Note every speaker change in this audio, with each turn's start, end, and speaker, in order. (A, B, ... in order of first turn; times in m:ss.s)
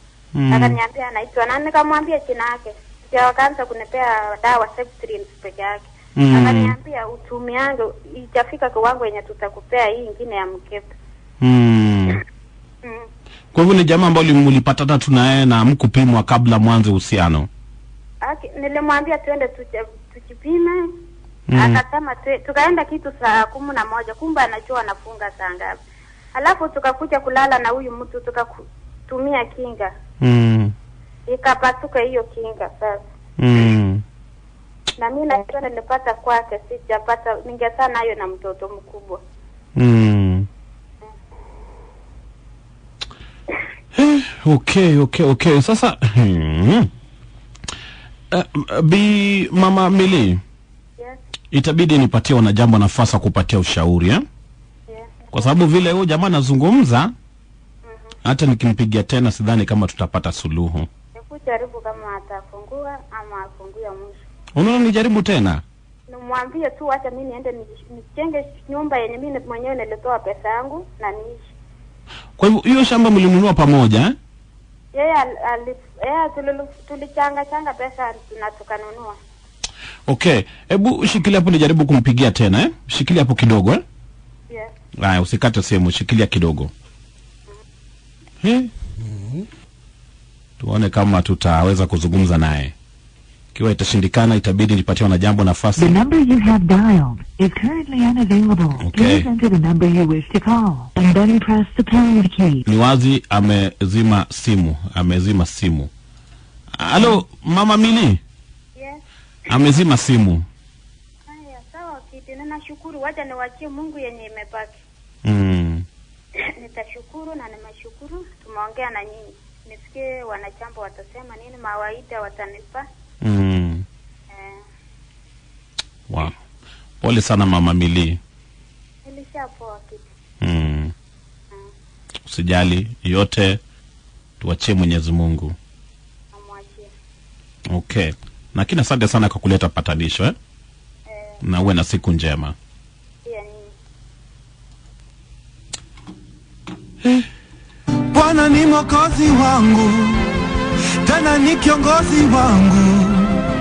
0:00.3-0:00.8 A
0:00.5-0:10.9 B
0:06.2-0:06.7 A
0:11.4-0:12.2 A
0:13.5-0:17.5 A
0:18.2-0:20.8 B
0:21.5-0:21.8 A
0:21.5-0:25.8 B
0:26.3-0:29.9 B
0:30.2-0:30.7 A
0:31.3-0:33.0 B
0:33.4-0:34.0 A
0:35.0-0:39.2 B
0:39.8-0:40.5 A
0:43.9-0:46.9 A
0:48.3-0:50.4 A
0:51.5-0:54.2 A
0:54.9-0:55.5 B
0:55.3-0:57.1 A
0:57.8-0:58.2 B
0:58.2-1:00.9 A
1:01.2-1:04.2 B
1:04.6-1:05.6 A
1:06.1-1:11.5 B
1:12.4-1:14.1 A
1:14.9-1:19.2 B
1:20.1-1:23.8 A
1:25.0-1:26.7 A
1:28.4-1:28.7 A
1:30.6-1:32.7 A
1:33.5-1:36.0 A
1:35.8-1:42.6 C
1:38.8-1:39.3 A
1:42.6-1:45.9 A
1:46.8-1:48.2 A
1:48.8-1:49.0 B
1:49.5-1:50.4 A
1:51.3-1:54.8 B
1:55.2-1:55.8 A
1:56.6-2:02.8 B
2:03.2-2:03.8 A
2:04.3-2:04.6 B
2:06.1-2:06.4 A
2:07.0-2:08.2 A
2:09.0-2:10.1 B
2:10.4-2:10.9 A
2:12.3-2:13.6 A
2:14.4-2:15.5 A
2:16.3-2:16.9 B
2:17.7-2:20.3 A
2:21.1-2:21.4 B
2:21.4-2:22.5 A
2:23.2-2:23.7 B
2:28.1-2:30.3 D
2:31.0-2:33.4 D